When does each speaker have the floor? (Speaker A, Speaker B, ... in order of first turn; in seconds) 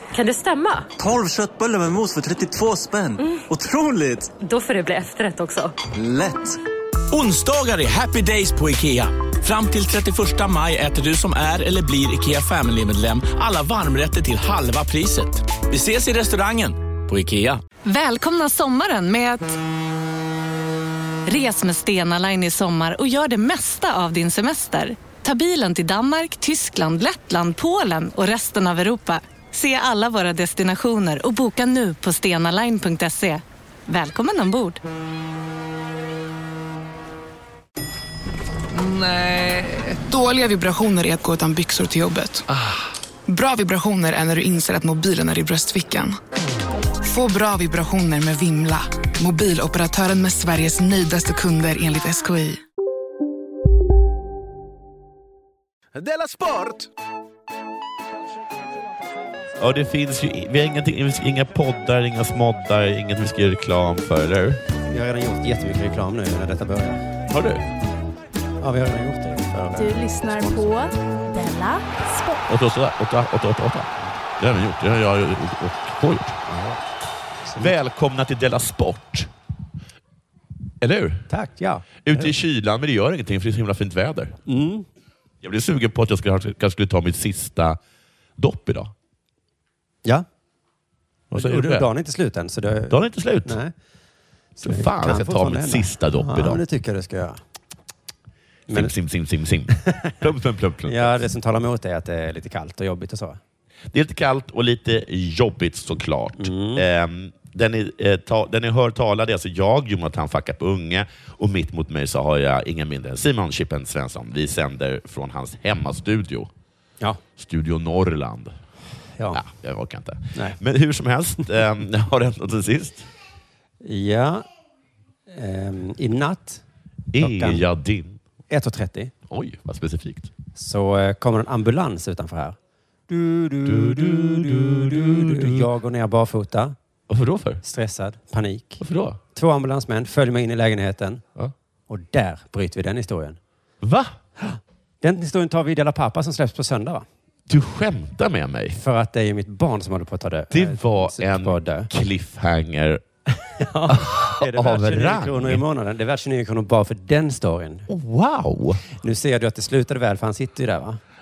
Speaker A: 0.1-0.9, 3.2-3.4, 4.4-5.8
Speaker B: 1.0-4.3, 5.9-6.6
Speaker C: 7.1-17.6, 56.0-56.9
Speaker D: 17.9-19.6, 21.3-34.8
Speaker E: 38.7-42.5, 43.3-46.2, 47.0-52.6
Speaker F: 59.6-64.6, 67.3-67.6, 72.5-76.4, 77.6-79.3, 80.8-81.3, 82.0-84.4, 85.4-87.8, 88.4-88.9, 91.3-91.9, 92.9-93.6, 94.6-96.6, 98.7-101.2, 103.9-116.5, 117.4-118.6, 119.3-123.1, 127.1-128.2, 129.3-130.3, 133.6-135.7, 137.1-137.6, 138.8-139.2, 143.8-144.2, 147.5-148.8, 150.5-153.0, 153.9-155.6, 157.9-158.8
Speaker G: 64.9-67.0, 68.6-70.8, 76.5-76.8, 77.4-77.8, 81.3-82.3, 84.5-84.9, 91.3-93.7, 94.6-97.4, 98.7-98.9, 100.9-103.4, 106.4-106.8, 120.3-120.6, 123.8-124.4, 125.3-126.6, 127.2-127.6, 128.5-129.1, 130.5-132.6, 133.1-136.8, 137.6-138.8, 139.3-141.2, 141.9-143.4, 144.4-147.1, 148.7-151.9, 153.6-157.9, 159.0-161.0
Speaker H: 69.7-72.4